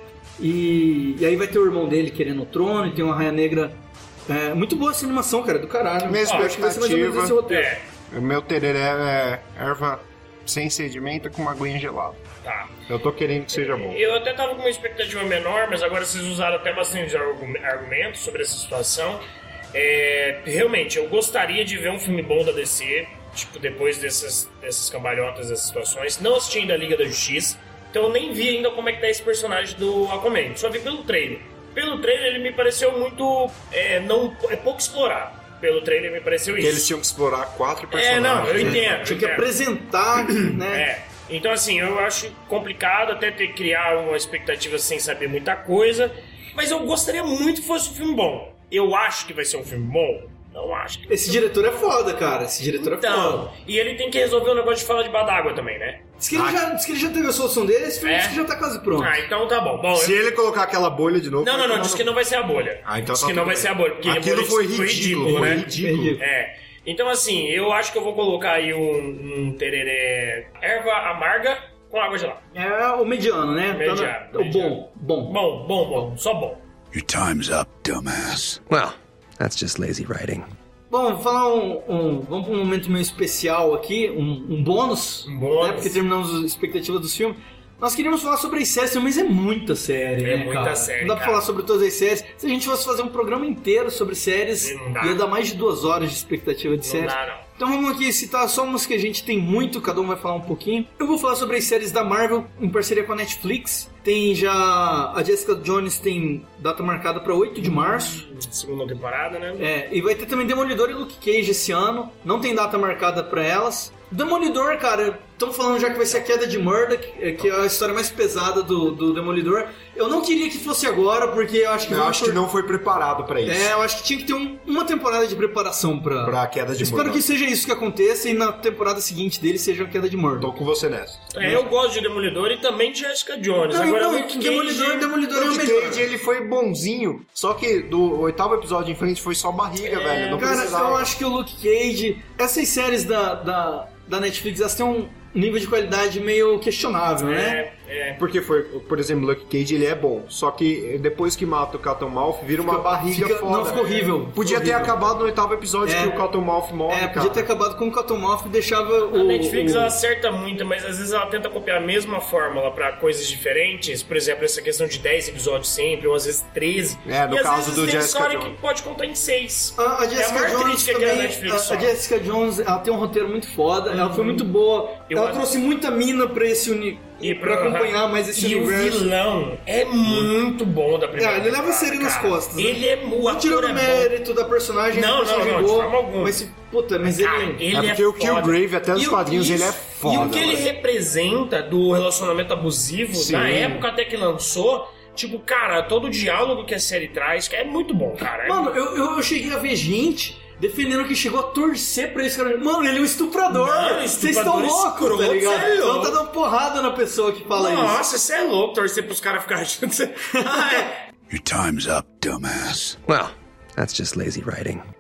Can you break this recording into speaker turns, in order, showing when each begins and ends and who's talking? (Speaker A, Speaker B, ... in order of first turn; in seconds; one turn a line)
Speaker A: 0.4-7.7
Speaker B: 6.0-7.4
Speaker C: 6.2-6.5
Speaker C: 7.5-7.9
Speaker B: 8.1-12.2
Speaker C: 12.4-12.8
Speaker B: 12.9-14.0
Speaker C: 13.5-36.9
Speaker B: 36.6-38.9
Speaker C: 37.9-39.5
Speaker A: 38.5-40.9
Speaker C: 40.3-51.5
Speaker A: 51.1-53.5
Speaker C: 52.8-56.0
Speaker A: 56.2-59.2
Speaker B: 56.3-56.6
Speaker C: 58.0-58.4
Speaker C: 59.0-60.2
Speaker B: 60.0-62.1
Speaker C: 61.4-72.4
Speaker B: 62.8-66.2
Speaker A: 65.5-66.2
Speaker A: 72.5-75.4
Speaker C: 73.7-76.6
Speaker D: 76.9-78.6
Speaker E: 78.7-80.5
Speaker A: 80.9-108.2
Speaker C: 85.2-86.0
Speaker C: 90.2-91.4
Speaker C: 94.6-95.2
Speaker C: 96.8-97.5
Speaker C: 107.6-109.7
Speaker A: 109.6-122.4
Speaker B: 121.9-123.7
Speaker A: 123.5-130.5
Speaker B: 126.2-127.3
Speaker B: 130.4-131.3
Speaker C: 131.3-135.2
Speaker A: 131.4-131.7
Speaker A: 133.7-136.1
Speaker B: 135.3-141.1
Speaker C: 139.8-140.8
Speaker A: 140.3-147.6
Speaker C: 147.2-148.2
Speaker B: 148.2-157.5
Speaker A: 152.6-155.0
Speaker C: 153.6-154.2
Speaker A: 155.8-156.2
Speaker A: 156.9-159.9
Speaker C: 159.1-171.9
Speaker B: 167.1-168.6
Speaker A: 169.8-179.1
Speaker C: 173.9-174.5
Speaker C: 175.1-175.4
Speaker C: 177.2-184.1
Speaker A: 181.2-187.7
Speaker C: 184.9-186.4
Speaker C: 187.0-198.8
Speaker B: 187.7-190.7
Speaker B: 193.1-193.9
Speaker A: 198.4-208.0
Speaker C: 203.5-206.2
Speaker C: 207.5-211.0
Speaker A: 210.4-210.9
Speaker D: 211.3-213.0
Speaker E: 213.1-214.8